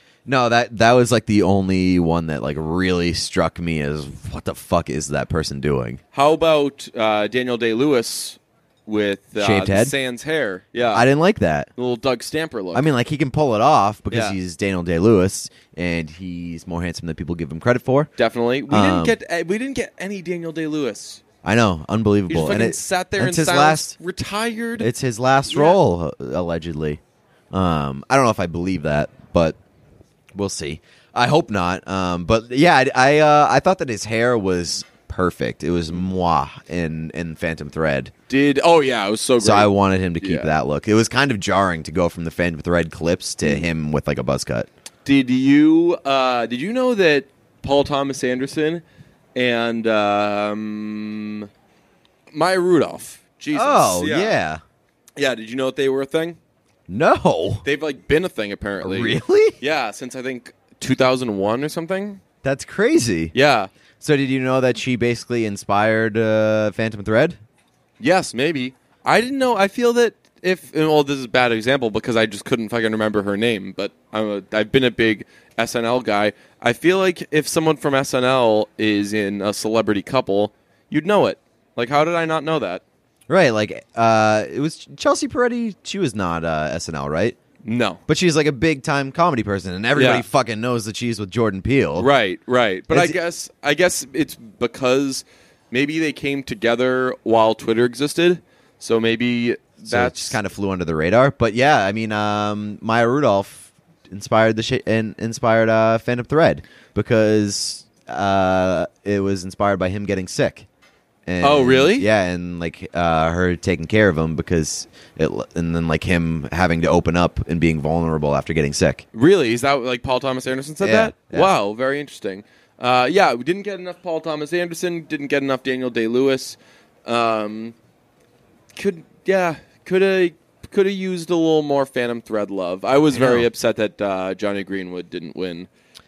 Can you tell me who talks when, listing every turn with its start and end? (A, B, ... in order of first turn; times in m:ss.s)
0:00.3-0:06.0 A
0:06.1-0:11.0 B
0:09.4-0:09.9 A
0:10.9-0:11.7 A
0:11.8-0:12.8 B
0:12.7-0:18.1 A
0:14.1-0:14.4 B
0:18.2-0:21.2 B
0:18.7-0:19.2 A
0:21.4-0:24.0 A
0:22.3-0:24.9 B
0:24.8-0:27.0 A
0:25.5-0:25.8 B
0:27.5-0:29.6 A
0:30.3-0:38.1 A
0:38.3-0:40.5 B
0:39.4-0:44.7 A
0:45.0-0:48.8 B
0:49.4-0:51.5 B
0:52.3-0:54.4 B
0:53.5-0:54.6 A
0:55.2-0:56.4 B
0:56.9-0:57.6 A
0:57.6-1:02.2 B
0:58.8-0:59.6 A
1:02.4-1:03.3 A
1:03.3-1:03.7 B
1:04.0-1:07.4 A
1:08.0-1:22.8 B
1:23.3-1:27.4 A
1:27.6-1:28.0 B
1:28.1-1:32.1 A
1:30.0-1:30.2 B
1:32.0-1:40.4 B
1:32.9-1:33.2 A
1:39.8-1:50.7 A
1:51.3-1:59.0 A
1:51.4-1:52.1 B
1:59.1-2:07.8 B
2:00.8-2:01.5 A
2:08.8-2:15.7 B
2:13.1-2:13.5 A